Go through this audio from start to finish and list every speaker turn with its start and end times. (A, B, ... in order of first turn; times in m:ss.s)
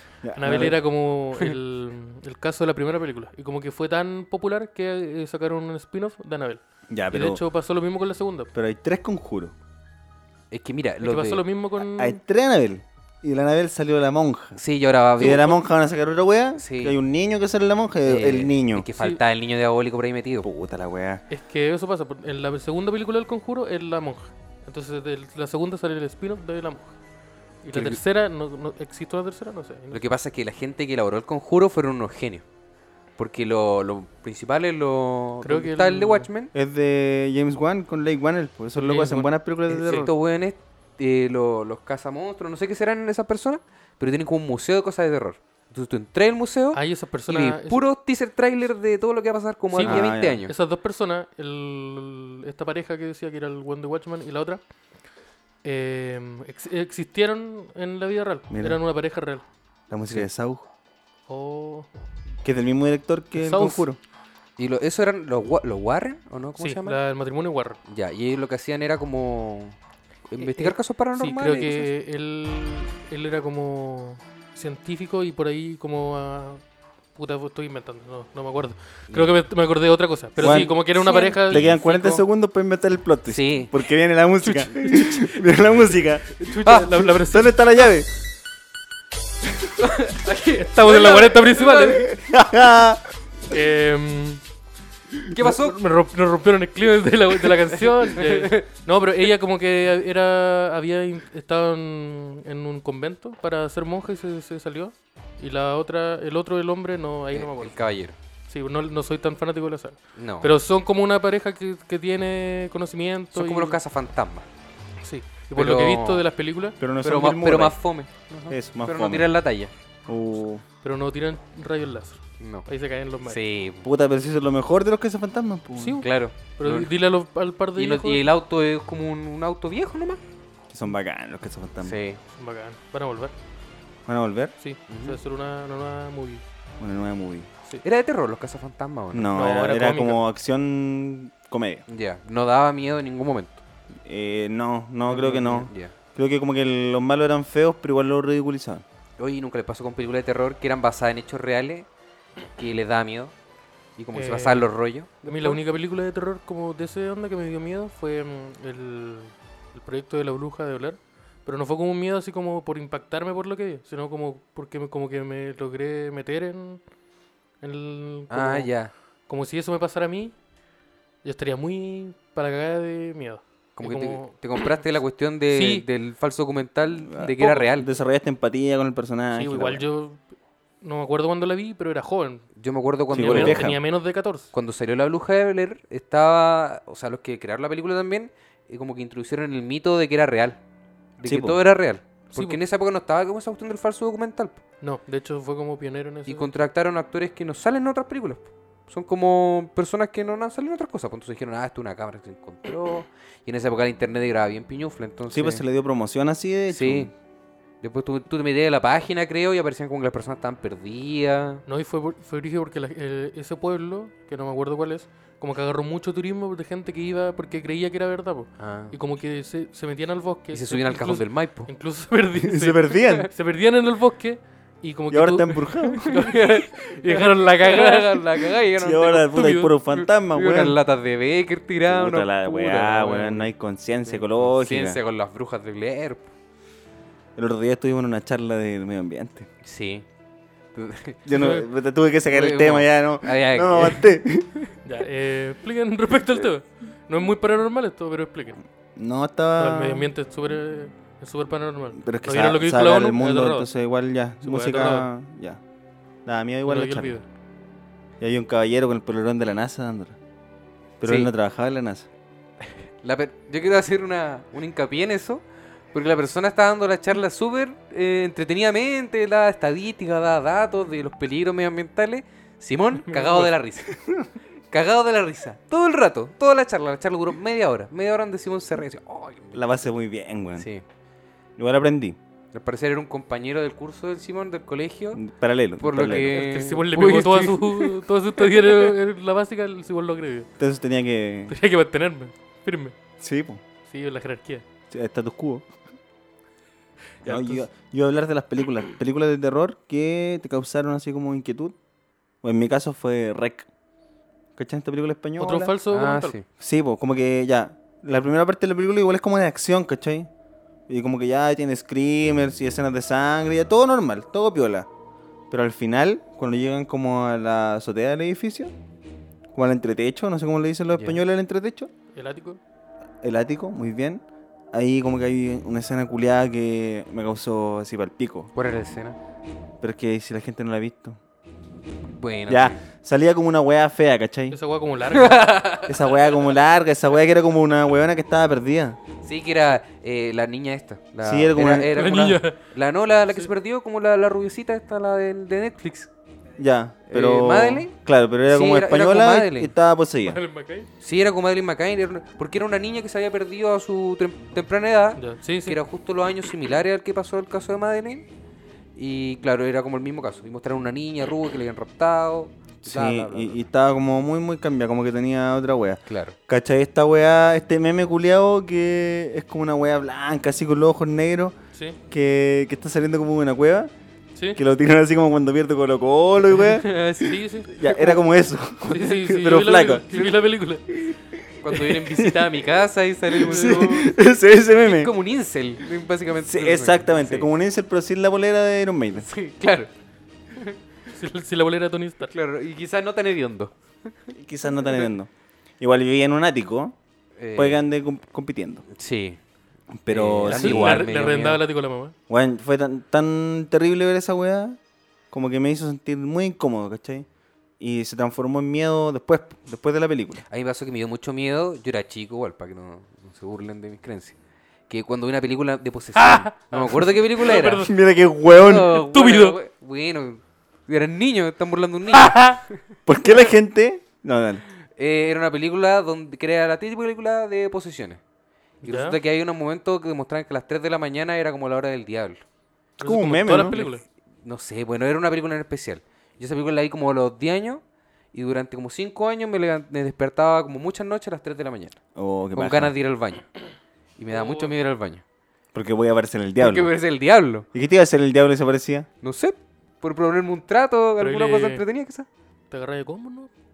0:00.2-0:00.8 A
0:00.4-0:08.5 B
0:06.9-0:07.4 A
0:08.5-0:09.5 A
0:10.5-0:11.4 C
0:11.0-0:12.2 B
0:11.8-0:14.6 A
0:14.6-0:15.6 C
0:15.2-0:18.9 A
0:15.2-0:15.5 B
0:16.6-0:17.0 C
0:18.0-0:20.5 C
0:20.4-0:21.2 A
0:21.3-0:26.9 B
0:27.6-0:30.0 B
0:27.7-0:28.0 C
0:29.9-0:32.4 C
0:33.2-0:36.5 C
0:35.4-0:36.3 B
0:36.5-0:40.1 A
0:38.8-0:39.3 B
0:39.7-0:50.5 C
0:46.7-0:47.8 B
0:49.7-0:54.6 B
0:49.8-0:50.4 A
0:55.6-0:59.4 B
0:58.5-0:58.8 A
0:59.9-1:00.7 A
1:01.3-1:01.9 B
1:02.4-1:04.0 A
1:03.3-1:03.8 B
1:04.6-1:07.0 C
1:06.6-1:07.8 B
1:07.9-1:09.8 C
1:10.3-1:11.9 C
1:10.4-1:16.6 B
1:17.2-1:22.2 B
1:20.4-1:21.8 C
1:20.4-1:20.7 A
1:21.5-1:26.3 A
1:23.2-1:23.7 C
1:24.4-1:25.4 B
1:26.4-1:27.6 B
1:26.6-1:27.1 C
1:27.3-1:28.1 A
1:29.8-1:32.2 C
1:30.2-1:32.1 B
1:32.1-1:33.1 A
1:33.5-1:34.4 B
1:35.3-1:35.8 C
1:35.4-1:47.8 B
1:37.3-1:38.7 C
1:47.3-1:48.2 C
1:48.5-1:53.8 B
1:50.2-1:50.5 C
1:53.3-1:54.5 C
1:55.0-1:56.8 B
1:55.5-1:56.2 C
1:56.8-1:57.8 A
1:57.0-1:59.7 C
1:58.5-1:59.3 A
2:00.1-2:00.6 A
2:00.8-2:03.4 B
2:02.4-2:02.7 C
2:03.2-2:03.9 C
2:03.8-2:06.0 A
2:05.8-2:08.2 B
2:06.0-2:06.9 C
2:07.8-2:10.2 C
2:10.7-2:12.0 A
2:11.8-2:12.2 C
2:12.3-2:13.3 B
2:14.1-2:14.5 A
2:14.6-2:16.4 B
2:14.9-2:15.2 C
2:16.8-2:17.5 A
2:17.8-2:19.3 C
2:19.1-2:21.8 A
2:19.3-2:20.2 B
2:21.9-2:23.6 C
2:24.0-2:28.8 A
2:25.1-2:25.9 C
2:29.2-2:31.9 C
2:32.6-2:33.3 C
2:34.0-2:35.6 C
2:34.1-2:34.7 B
2:35.2-2:46.8 B
2:47.6-2:48.7 B
2:48.3-2:48.9 C
2:49.3-2:50.4 B
2:51.2-2:54.8 B
2:53.8-2:57.9 C
2:55.5-2:55.9 B
2:57.0-2:59.8 A
2:59.3-3:00.2 B
3:00.8-3:02.5 B
3:02.6-3:03.7 C
3:03.1-3:03.8 A
3:03.2-3:04.5 B
3:04.5-3:10.6 C
3:11.2-3:14.6 C
3:11.2-3:11.6 A
3:12.3-3:12.6 B
3:14.8-3:16.5 B
3:16.3-3:25.6 C
3:25.3-3:27.1 A
3:26.7-3:27.1 C
3:27.8-3:31.6 C
3:31.7-3:48.7 B
3:38.6-3:38.9 C
3:40.5-3:41.7 C
3:42.4-3:43.3 A
3:45.1-3:46.1 A
3:46.0-3:49.4 C
3:48.8-3:50.8 A
3:49.2-3:49.7 B
3:49.9-3:53.5 C
3:51.9-3:55.0 A
3:54.0-3:56.3 C
3:57.4-3:59.5 A
3:59.6-4:00.0 C
4:00.7-4:01.4 C
4:01.2-4:04.5 A
4:01.3-4:01.6 B
4:02.2-4:04.7 C
4:04.8-4:08.6 B
4:09.0-4:10.1 A
4:09.6-4:13.7 B
4:12.0-4:15.6 A
4:14.4-4:15.1 B
4:16.2-4:17.2 A
4:16.6-4:17.2 B
4:18.2-4:20.2 A
4:21.0-4:22.1 A
4:21.0-4:21.3 C
4:22.6-4:34.0 C
4:33.0-4:33.5 B
4:34.7-4:39.6 C
4:39.5-4:40.7 A
4:40.6-4:40.8 C
4:41.6-4:42.2 A
4:42.5-4:45.2 C
4:45.1-4:46.4 A
4:45.8-4:48.9 C
4:46.3-4:50.5 B
4:50.6-4:51.5 A
4:51.5-4:52.9 B
4:53.2-4:53.6 A
4:53.8-4:54.6 B
4:54.9-4:55.7 A
4:57.2-4:57.6 B
4:57.2-5:01.7 A
5:02.4-5:03.7 A
5:04.6-5:05.7 A
5:05.4-5:06.4 B
5:05.9-5:06.4 C
5:06.6-5:10.3 A
5:10.9-5:14.9 A
5:15.5-5:18.7 A
5:19.5-5:21.9 A
5:20.9-5:21.2 C
5:22.1-5:22.6 B
5:23.2-5:24.2 A
5:24.7-5:28.5 A
5:28.5-5:29.2 C
5:29.8-5:31.2 A
5:32.0-5:32.8 C
5:32.5-5:34.6 A
5:34.5-5:35.8 B
5:35.1-5:36.0 C
5:35.8-5:39.0 A
5:39.2-5:46.1 C
5:41.2-5:42.4 A
5:41.9-5:42.7 B
5:46.6-5:50.4 A
5:47.1-5:47.9 C
5:48.5-5:49.7 C
5:50.2-5:50.9 B
5:51.0-5:58.3 C
5:55.2-5:55.8 B
5:58.9-6:03.6 C
6:02.8-6:11.5 A
6:06.1-6:06.4 C
6:12.1-6:13.9 A
6:14.5-6:16.9 A
6:16.5-6:17.9 C
6:17.2-6:18.2 B
6:17.7-6:20.0 A
6:18.8-6:19.3 C
6:18.9-6:21.0 B
6:20.0-6:20.4 C
6:21.6-6:24.1 C
6:21.7-6:22.4 A
6:23.3-6:25.1 A
6:23.4-6:24.0 B
6:24.8-6:27.5 C
6:26.4-6:29.3 A
6:29.1-6:29.9 C
6:31.1-6:32.3 B
6:32.3-6:34.3 C
6:34.3-6:37.0 A
6:37.4-6:37.8 C
6:37.6-6:38.8 A
6:38.9-6:39.4 C
6:39.9-6:41.1 A
6:40.1-6:41.6 C
6:40.5-6:42.1 B
6:42.3-6:44.8 A
6:45.3-6:47.3 A
6:47.8-6:50.4 A
6:50.5-6:54.4 C
6:54.9-6:57.9 C
6:56.2-6:57.9 B
6:57.7-6:59.0 A
6:58.5-7:02.8 C
6:58.7-6:59.6 B
7:02.2-7:02.6 B
7:03.0-7:04.6 A
7:04.8-7:08.2 C
7:08.8-7:09.2 B
7:08.8-7:12.4 C
7:13.0-7:13.8 A
7:13.0-7:14.0 B
7:13.5-7:17.8 C
7:18.3-7:22.0 C
7:22.2-7:22.9 A
7:22.5-7:23.4 C
7:24.2-7:25.2 C
7:24.3-7:24.7 B
7:25.7-7:26.9 A
7:26.6-7:27.6 C
7:27.7-7:29.1 A
7:29.2-7:32.3 C
7:31.2-7:31.8 B
7:32.7-7:33.5 B